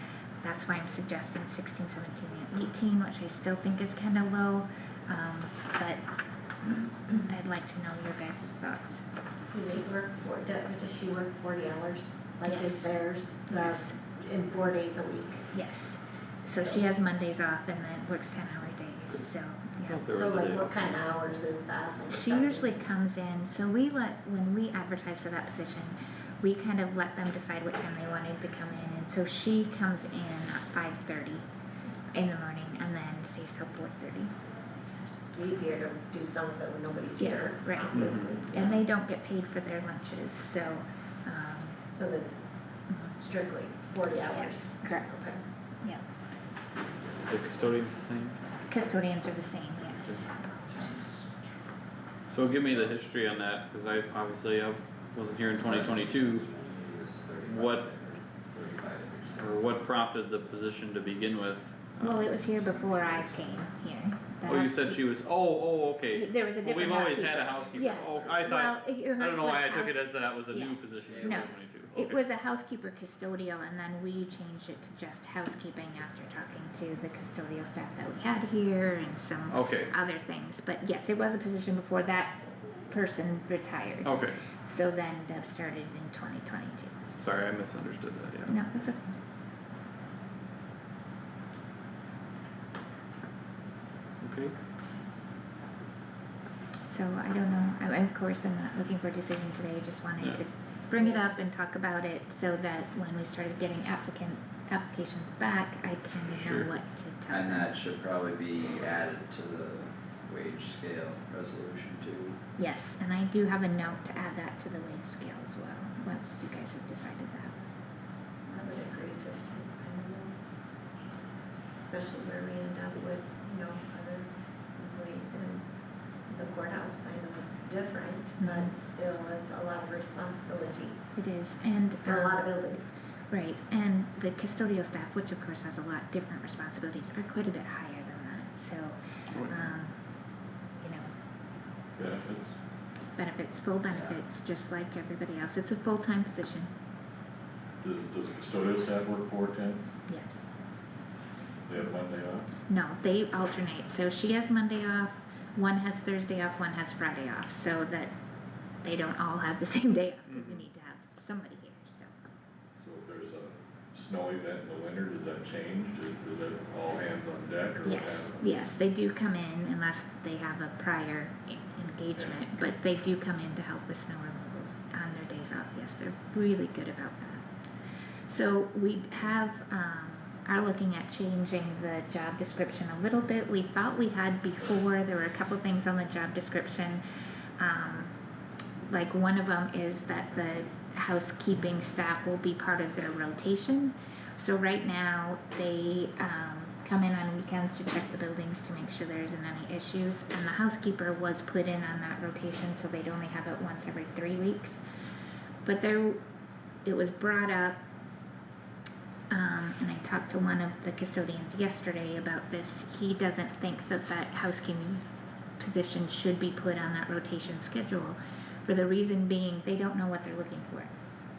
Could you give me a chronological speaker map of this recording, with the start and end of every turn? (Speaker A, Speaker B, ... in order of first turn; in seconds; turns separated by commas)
Speaker A: 0.4-6.0, Speaker A: 7.1-9.0, Speaker B: 9.5-15.5, Speaker A: 12.5-12.9, Speaker A: 13.5-13.9, Speaker A: 15.5-20.1, Speaker C: 19.9-20.8, Speaker B: 20.1-22.7, Speaker A: 22.1-31.5, Speaker A: 32.1-34.3, Speaker B: 35.3-38.8, Speaker A: 37.2-41.8, Speaker B: 41.9-42.4, Speaker B: 43.2-45.4, Speaker A: 44.3-46.0, Speaker C: 47.2-48.4, Speaker A: 48.7-50.5, Speaker D: 50.5-51.5, Speaker C: 52.3-56.5, Speaker D: 52.7-52.9, Speaker D: 55.5-59.7, Speaker C: 57.4-57.9, Speaker C: 59.3-62.3, Speaker A: 62.0-65.0, Speaker C: 64.4-72.1, Speaker A: 66.1-86.9, Speaker D: 67.7-68.4, Speaker D: 71.1-71.7, Speaker C: 79.5-79.9, Speaker C: 84.0-84.4, Speaker C: 87.2-88.5, Speaker A: 88.5-89.1, Speaker C: 94.2-94.5, Speaker A: 96.9-107.7, Speaker C: 106.3-106.7, Speaker D: 107.3-112.4, Speaker A: 112.6-117.5, Speaker B: 118.5-120.3, Speaker B: 121.8-125.7, Speaker B: 126.3-131.0, Speaker A: 128.4-128.7, Speaker A: 131.2-132.5, Speaker B: 132.0-132.9, Speaker A: 133.3-140.0, Speaker C: 139.3-139.7, Speaker A: 140.8-141.1, Speaker E: 142.0-142.5, Speaker A: 143.2-146.7, Speaker D: 143.9-144.2, Speaker E: 147.8-149.9, Speaker A: 150.1-150.4, Speaker E: 151.7-152.5, Speaker A: 152.7-158.1, Speaker A: 158.8-162.1, Speaker E: 162.8-168.5, Speaker A: 167.8-177.4, Speaker E: 172.2-172.4, Speaker A: 178.3-187.0, Speaker A: 187.6-188.1, Speaker A: 188.8-204.8, Speaker A: 205.6-206.2, Speaker A: 206.8-207.8, Speaker A: 209.3-215.0, Speaker A: 215.6-220.9